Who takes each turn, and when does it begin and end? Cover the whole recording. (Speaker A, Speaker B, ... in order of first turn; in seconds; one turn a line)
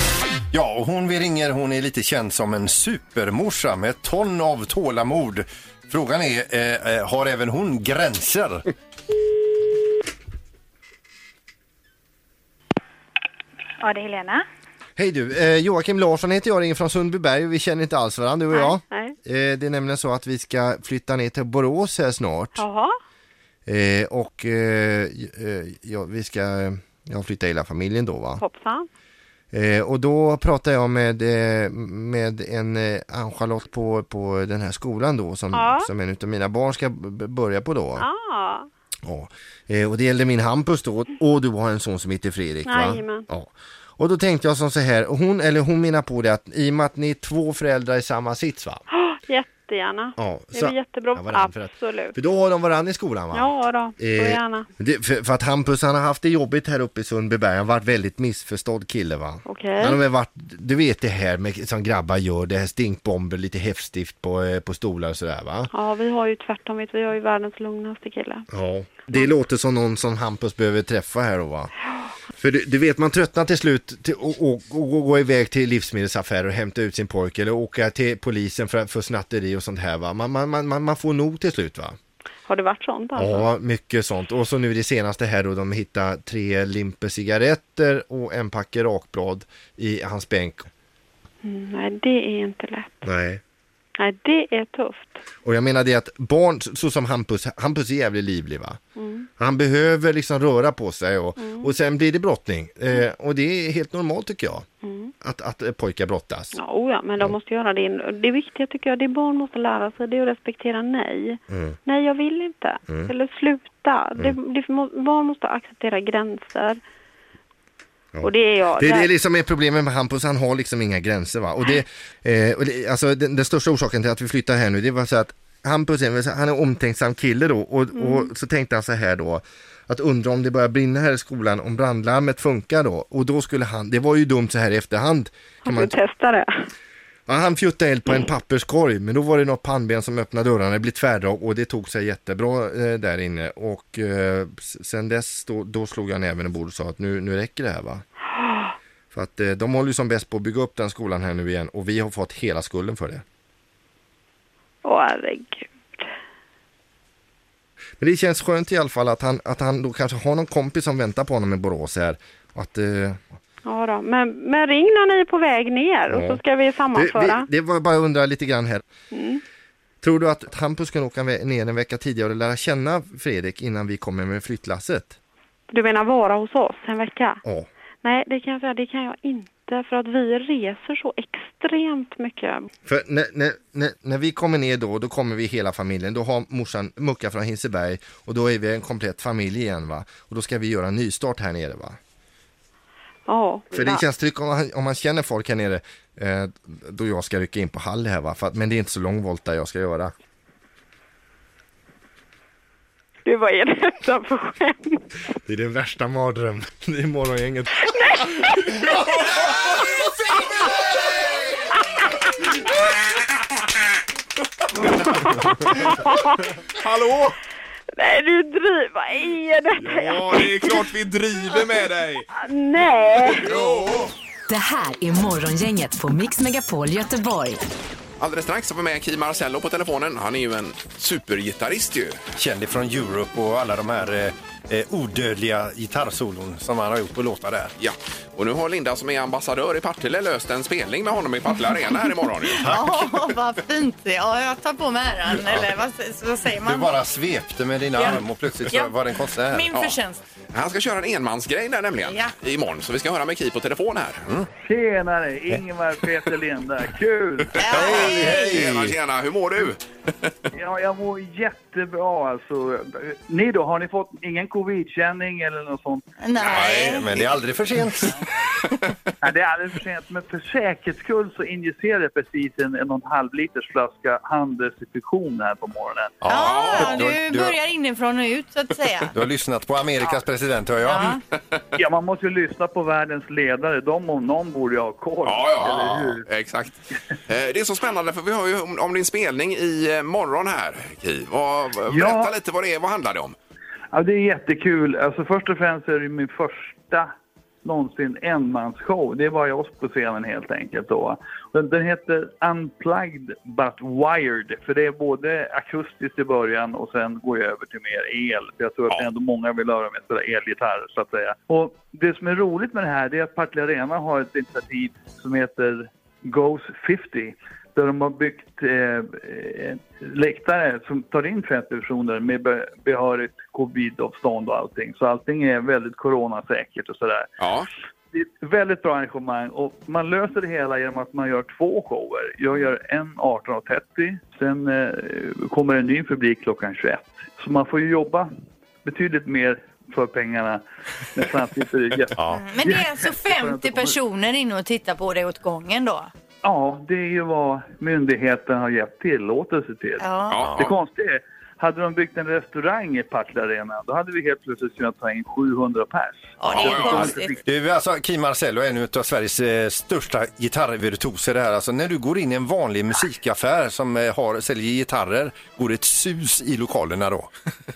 Speaker A: 0.5-8.6
Speaker B: 15.0-22.6
Speaker C: 18.5-19.2
Speaker C: 22.6-23.0
Speaker B: 23.7-28.4
Speaker C: 28.4-28.9
Speaker B: 29.5-38.1
Speaker C: 35.5-35.9
Speaker C: 38.0-38.7
Speaker B: 39.1-48.8
Speaker C: 42.7-43.3
Speaker C: 48.9-52.2
Speaker B: 50.2-65.7
Speaker C: 53.3-54.7
Speaker C: 59.5-60.0
Speaker C: 65.7-68.5
Speaker B: 68.5-71.7
Speaker B: 72.4-82.0
Speaker C: 82.5-83.5
Speaker B: 83.2-90.7
Speaker C: 91.4-93.0
Speaker B: 93.0-93.4
Speaker C: 94.0-95.2
Speaker B: 95.5-98.8
Speaker C: 99.0-99.3
Speaker B: 99.4-104.7
Speaker C: 101.4-101.7
Speaker C: 104.8-105.1
Speaker B: 105.2-106.5
Speaker C: 106.5-116.8
Speaker B: 111.5-111.8
Speaker B: 112.9-113.1
Speaker B: 118.2-135.9
Speaker C: 118.2-119.1
Speaker C: 128.0-128.3
Speaker C: 135.7-136.7
Speaker B: 137.3-148.0
Speaker C: 148.4-148.7
Speaker B: 149.1-153.2
Speaker C: 154.8-156.0
Speaker B: 158.0-163.2
Speaker C: 163.7-167.5
Speaker B: 166.1-166.4
Speaker B: 166.9-168.8
Speaker C: 169.1-169.4
Speaker B: 170.0-175.2
Speaker C: 175.7-177.4
Speaker C: 178.0-182.7
Speaker B: 182.9-192.0
Speaker C: 193.3-194.1
Speaker B: 193.7-200.1
Speaker C: 203.2-205.0
Speaker B: 205.5-207.8
Speaker C: 215.8-216.2
Speaker D: 216.8-217.4
Speaker C: 217.9-220.9
Speaker D: 219.8-222.3
Speaker C: 222.3-223.6
Speaker D: 223.4-224.1
Speaker E: 224.5-227.6
Speaker D: 228.2-232.2
Speaker A: 232.4-237.7
Speaker D: 237.8-242.7
Speaker A: 242.6-243.0
Speaker F: 242.6-246.9
Speaker A: 246.7-249.7
Speaker F: 248.0-248.9
Speaker F: 249.5-250.2
Speaker D: 250.5-254.3
Speaker F: 252.1-252.3
Speaker G: 254.6-257.6
Speaker F: 257.6-258.6
Speaker A: 257.7-259.0
Speaker D: 257.8-259.8
Speaker G: 260.5-266.1
Speaker F: 266.2-267.3
Speaker A: 266.4-268.2
Speaker G: 269.2-276.2
Speaker A: 276.2-277.6
Speaker F: 276.3-279.1
Speaker D: 276.4-277.1
Speaker A: 279.1-281.2
Speaker F: 280.8-281.2
Speaker G: 281.8-286.2
Speaker D: 285.2-286.8
Speaker D: 287.3-293.4
Speaker G: 291.9-292.3
Speaker G: 293.9-297.1
Speaker G: 297.6-327.3
Speaker D: 327.4-327.7
Speaker G: 328.1-338.3
Speaker G: 338.8-340.6
Speaker G: 341.1-344.0
Speaker F: 342.3-346.1
Speaker G: 346.4-357.4
Speaker F: 350.0-350.4
Speaker D: 350.3-350.6
Speaker F: 356.4-357.4
Speaker D: 356.5-357.1
Speaker A: 357.5-367.3